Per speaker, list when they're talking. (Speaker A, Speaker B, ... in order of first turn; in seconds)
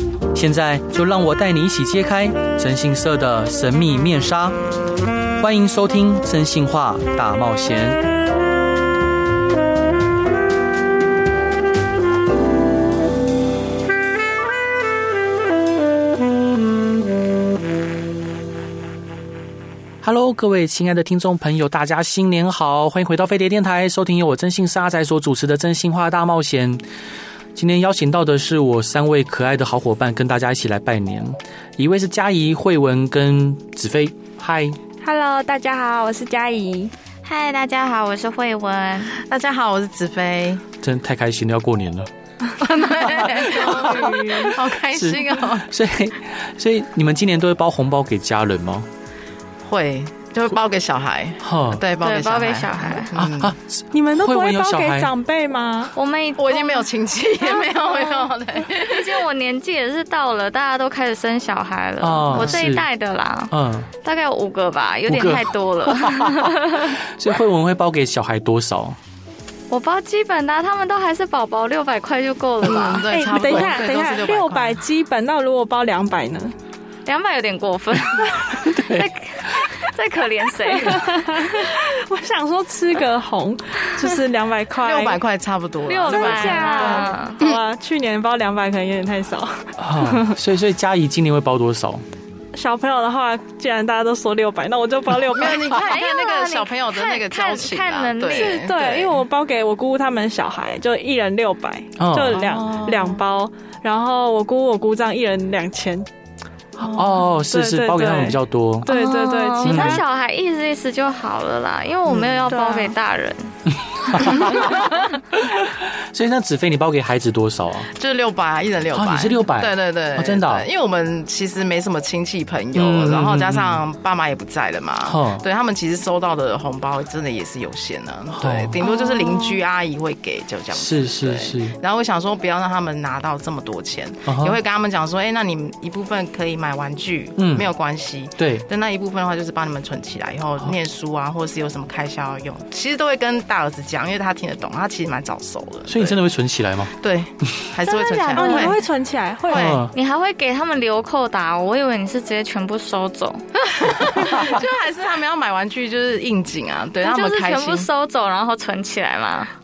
Speaker A: 0.3-4.6, 5.4-8.0, 20.0-26.8, 27.6-34.8, 40.8-42.1, 43.2-48.9, 51.4-51.8, 53.2-55.1, 62.0-62.9, 63.5-63.9, 65.1-69.0, 78.5-79.7, 89.8-92.0, 102.0-102.4, 106.8-108.9, 109.6-110.0, 113.7-117.9, 118.9-120.7, 122.8-123.8, 125.1-125.4, 128.3-128.8, 130.8-131.8, 134.3-134.6, 137.4-137.7, 138.4-138.7, 145.9-146.9, 149.5-149.9
Speaker B: 35.0-36.9, 43.2-44.6, 53.9-55.9, 73.1-76.5, 80.7-85.2, 86.1-90.4, 92.5-95.7, 98.2-106.1, 106.9-110.0, 112.5-112.9, 128.9-129.6, 147.8-149.8
Speaker C: 37.2-39.1, 52.0-53.2, 56.0-56.9, 57.4-67.0, 69.7-73.1, 77.1-81.8, 85.9-87.4, 95.6-98.7, 108.8-115.0, 148.3-148.7, 149.9-153.4, 157.0-159.5
Speaker D: 39.1-40.6, 42.6-45.7, 49.6-53.5, 56.4-59.2, 62.3-62.6, 72.6-74.8, 84.8-87.6, 95.3-99.2, 102.3-103.2, 112.1-112.5, 117.9-146.2, 147.0-148.8, 149.5-149.8, 153.6-157.9